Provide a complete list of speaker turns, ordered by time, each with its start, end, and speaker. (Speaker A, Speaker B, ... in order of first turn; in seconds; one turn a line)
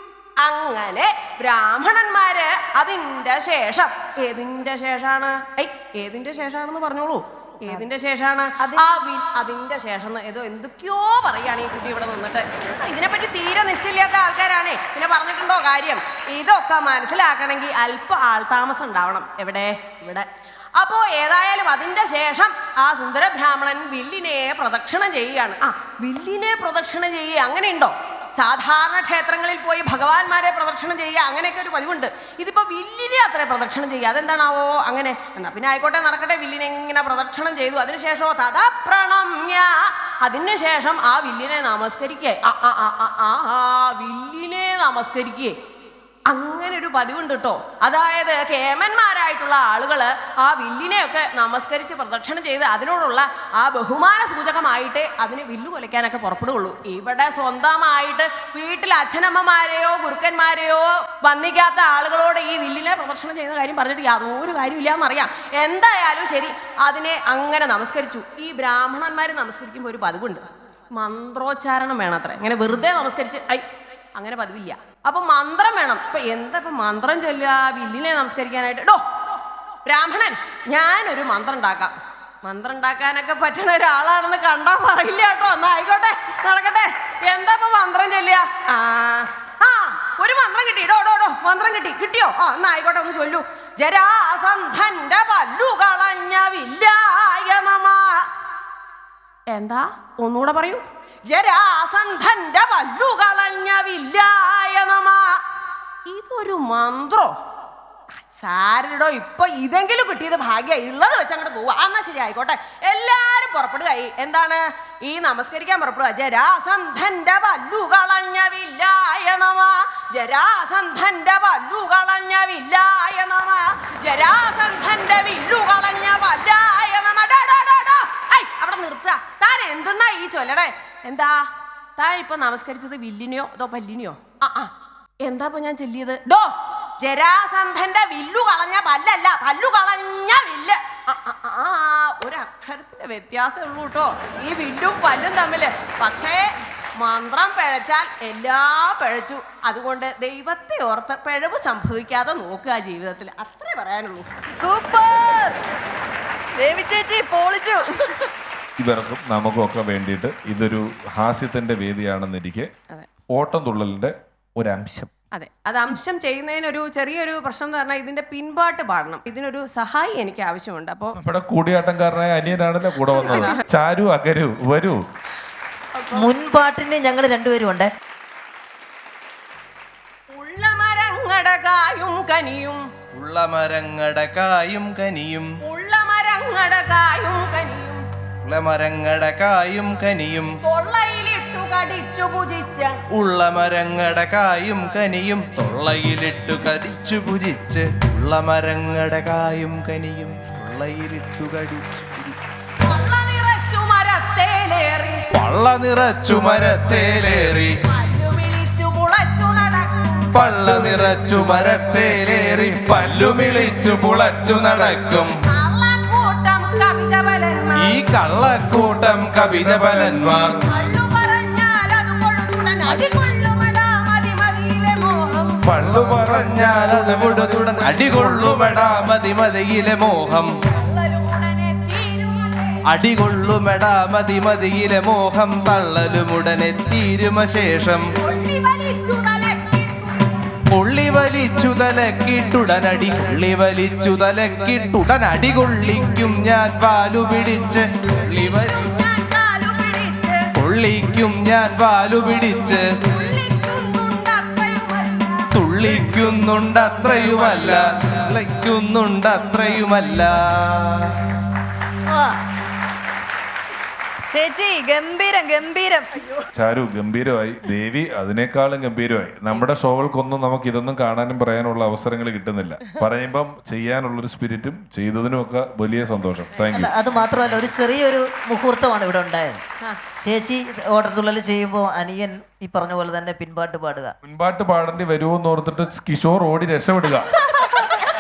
Speaker A: 0.4-45.6
Speaker A: 46.3-70.4
Speaker A: 71.0-79.0
Speaker A: 79.9-98.3
Speaker A: 99.5-105.4
Speaker A: 106.1-107.3
Speaker A: 108.3-131.4
Speaker A: 132.0-134.7
Speaker A: 135.2-146.5
Speaker A: 147.0-154.3
Speaker B: 154.6-155.6
Speaker B: 156.6-158.3
Speaker C: 158.8-162.7
Speaker C: 163.3-165.1
Speaker A: 165.3-171.2
Speaker C: 171.2-175.0
Speaker A: 173.1-173.6
Speaker A: 176.0-176.3
Speaker D: 176.1-177.9
Speaker A: 180.3-182.8
Speaker E: 183.1-185.5
Speaker A: 185.6-188.0
Speaker E: 188.4-190.5
Speaker A: 190.6-193.0
Speaker E: 193.1-202.4
Speaker A: 202.8-205.3
Speaker E: 205.3-207.7
Speaker A: 207.9-210.3
Speaker E: 210.3-215.3
Speaker A: 215.5-218.0
Speaker E: 217.8-220.6
Speaker C: 219.5-220.6
Speaker A: 220.7-225.6
Speaker C: 225.6-228.9
Speaker E: 225.8-230.5
Speaker A: 230.6-232.8
Speaker E: 232.9-238.0
Speaker A: 238.2-240.4
Speaker E: 240.7-248.8
Speaker A: 248.2-250.5
Speaker E: 250.6-252.9
Speaker A: 253.0-255.6
Speaker E: 255.5-261.4
Speaker D: 262.1-262.4
Speaker B: 264.3-266.4
Speaker C: 266.5-277.6
Speaker D: 276.7-279.6
Speaker D: 280.2-284.1
Speaker C: 284.2-287.3